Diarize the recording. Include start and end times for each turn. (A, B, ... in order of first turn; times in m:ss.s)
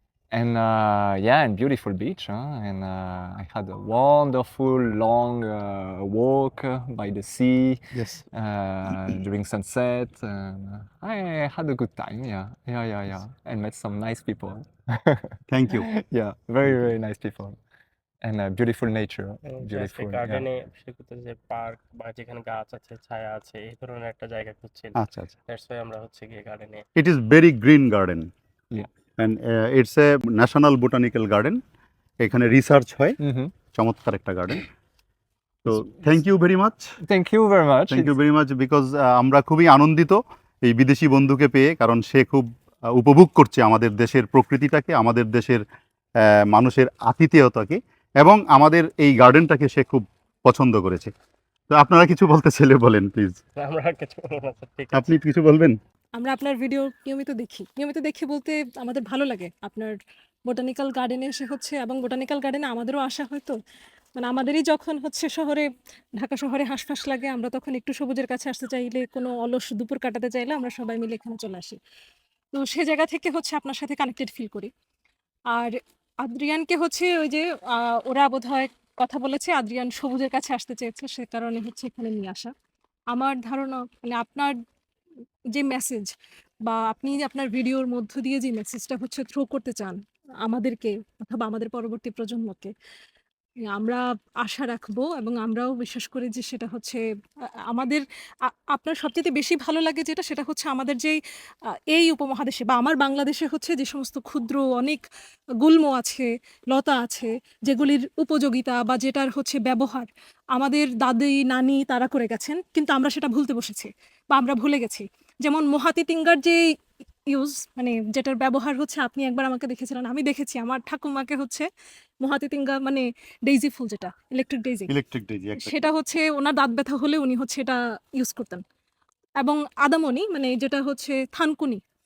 0:00.3-0:17.6 A
0:08.0-0:08.2 B
0:15.5-0:15.9 B
0:18.2-0:20.4 A
0:19.5-0:25.0 C
0:25.0-0:25.4 B
0:25.5-0:26.8 C
0:27.0-0:28.3 B
0:29.2-0:31.6 B
0:32.2-0:33.2 B
0:33.2-0:33.5 A
0:33.7-0:34.6 B
0:35.6-0:36.9 B
0:37.0-0:38.1 A
0:37.9-0:45.6 B
0:46.3-0:51.1 B
0:51.7-0:53.4 B
0:53.6-0:55.2 C
0:54.9-0:55.8 B
0:56.2-0:59.9 D
1:00.5-1:03.6 D
1:04.2-1:05.7 D
1:06.2-1:11.8 D
1:12.5-1:14.7 D
1:15.5-1:22.5 D
1:23.1-1:24.5 D
1:25.6-1:26.1 D
1:26.7-1:32.7 D
1:33.7-1:37.0 D
1:37.7-1:41.2 D
1:41.9-1:45.0 D
1:45.6-1:56.6 D
1:57.3-2:01.7 D
2:02.2-2:04.9 D
2:04.9-2:05.8 B
2:05.6-2:08.6 D
2:09.4-2:11.8 D